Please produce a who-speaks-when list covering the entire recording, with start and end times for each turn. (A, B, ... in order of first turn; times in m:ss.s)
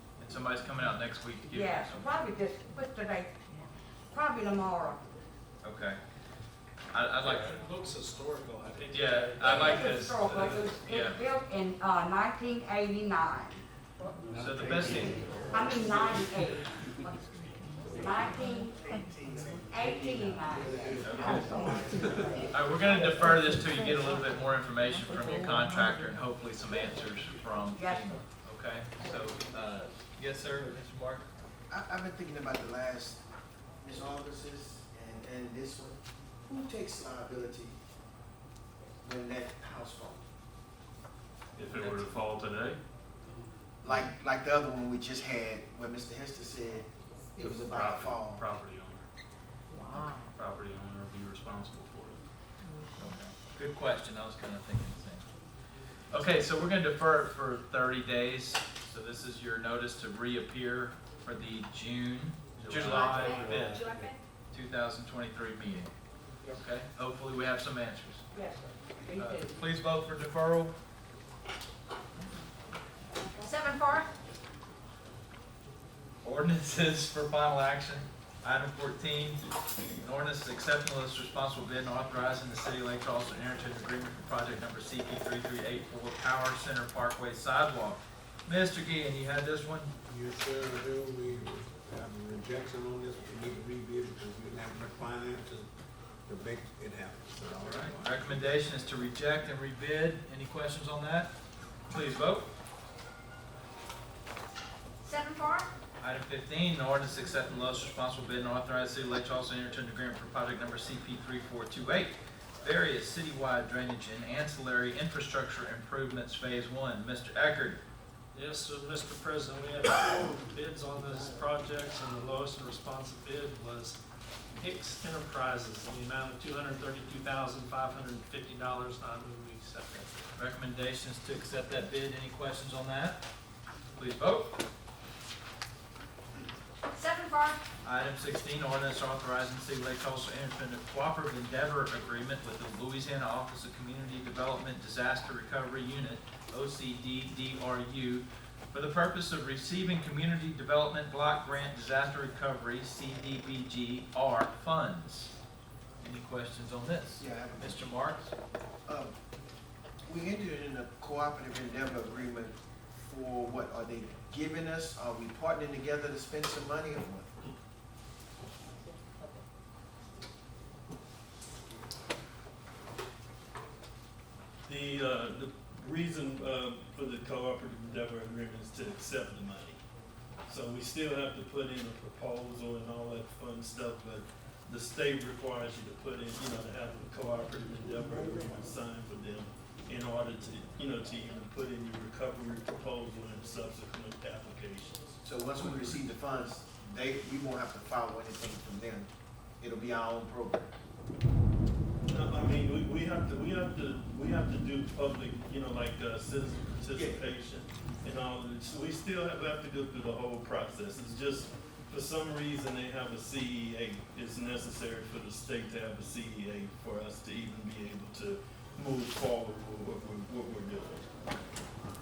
0:00.2-0:02.1 A
0:01.5-0:03.3 B
0:04.1-0:05.0 B
0:05.6-0:06.0 A
0:06.9-0:07.6 A
0:07.2-0:09.6 C
0:08.9-0:11.2 A
0:09.4-0:13.6 B
0:14.4-0:15.2 A
0:15.5-0:16.6 B
0:17.9-0:18.7 B
0:19.7-0:22.1 B
0:21.0-0:21.4 A
0:22.5-0:31.2 A
0:27.8-0:28.2 B
0:31.7-0:33.2 D
0:33.8-0:37.8 D
0:39.0-0:40.2 D
0:41.6-0:42.8 E
0:41.7-0:42.0 A
0:43.8-0:48.4 D
0:47.4-0:49.0 E
0:49.9-0:52.2 E
0:53.0-0:55.2 A
0:56.1-1:03.8 A
1:02.5-1:04.1 E
1:02.8-1:04.2 F
1:04.5-1:05.9 A
1:06.5-1:08.2 A
1:08.3-1:09.6 B
1:09.2-1:10.7 A
1:13.4-1:14.1 F
1:16.2-1:19.4 A
1:20.0-1:29.9 A
1:30.0-1:35.7 G
1:36.2-1:38.4 G
1:37.6-1:41.3 A
1:41.9-1:42.5 A
1:45.0-1:45.7 F
1:46.0-1:57.8 A
1:58.3-2:04.0 C
2:04.5-2:10.2 C
2:10.4-2:13.2 A
2:14.0-2:14.5 A
2:16.9-2:17.6 F
2:17.8-2:35.3 A
2:36.0-2:38.3 A
2:37.2-2:37.9 D
2:38.8-2:39.1 D
2:40.1-2:47.3 D
2:54.6-2:59.8 H
3:00.5-3:15.2 H
3:15.2-3:19.1 D
3:19.6-3:20.7 D
3:22.1-3:41.0 H